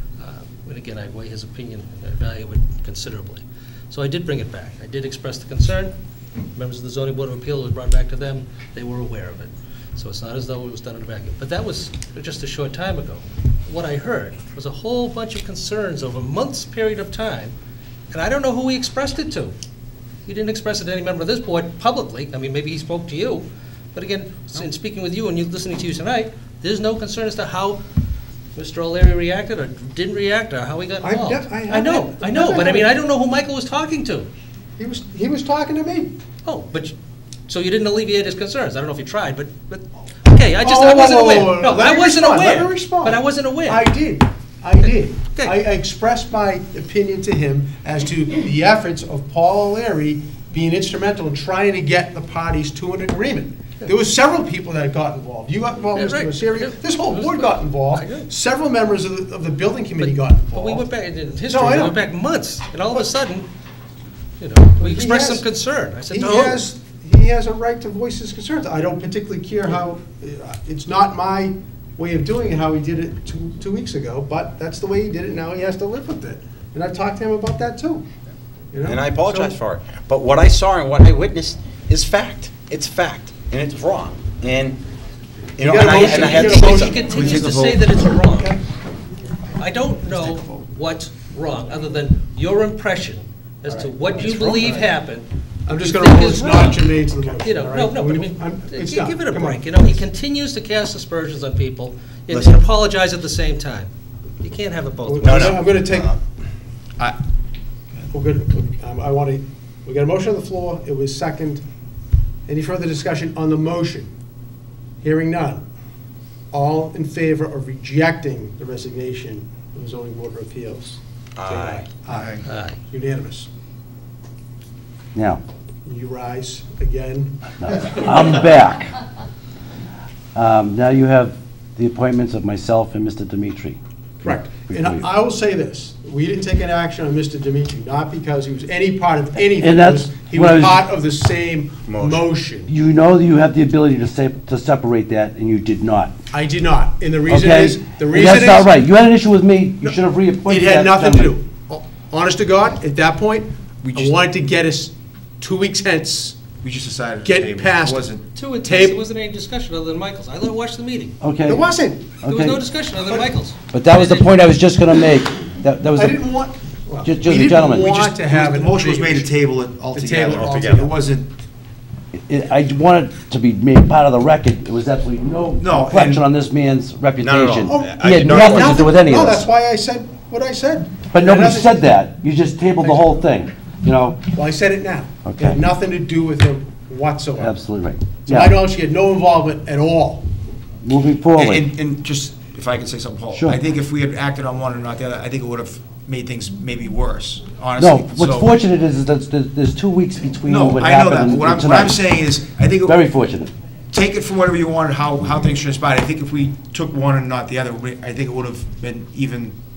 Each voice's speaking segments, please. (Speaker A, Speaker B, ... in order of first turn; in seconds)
Speaker A: 0.2-5.9, 6.5-17.5, 18.1-19.5, 20.2-27.8, 28.5-34.3, 36.4-37.0, 37.5-43.9, 55.9-58.3, 60.0-63.5, 64.4-66.6, 85.9-88.6, 89.6-95.3, 95.8-96.8, 97.4-105.7, 122.5-122.8, 158.3-161.2, 162.2-164.3
Speaker B: 31.0-32.9, 34.8-36.2, 40.6-60.9, 61.5-62.0, 64.8-65.5, 66.1-78.0, 78.7-79.6, 85.6-87.0, 88.2-88.6, 93.7-94.9, 95.7-100.0, 105.0-106.1, 108.1-111.6, 112.5-114.1, 115.0-115.6, 116.5-123.5, 125.8-128.3, 134.2-142.7, 146.3-148.7, 149.8-156.4, 157.2-158.1, 158.6-159.0, 161.5-162.2, 166.0-169.3, 169.9-170.9, 177.7-181.8, 182.8-183.2, 184.3-187.5, 188.2-190.2
Speaker C: 78.8-84.8, 85.6-87.0, 102.3-102.6, 105.2-106.1, 121.3-121.9, 141.8-142.3, 170.3-170.9, 177.2-179.0
Speaker D: 86.9-87.9, 122.1-122.4, 153.8-154.2, 156.6-158.3, 167.8-171.3, 175.6-176.2, 191.3-198.5, 200.5-203.0, 203.9-209.6
Speaker E: 125.1-125.4, 127.6-129.0, 130.3-135.0, 139.5-140.8, 142.7-146.1, 147.3-151.3, 161.2-161.7, 162.2-162.6, 163.7-166.2, 167.0-168.0, 172.1-179.4, 181.1-184.3, 185.2-185.6, 187.4-188.6, 190.8-191.7, 193.3-193.6, 197.8-202.0, 202.8-203.5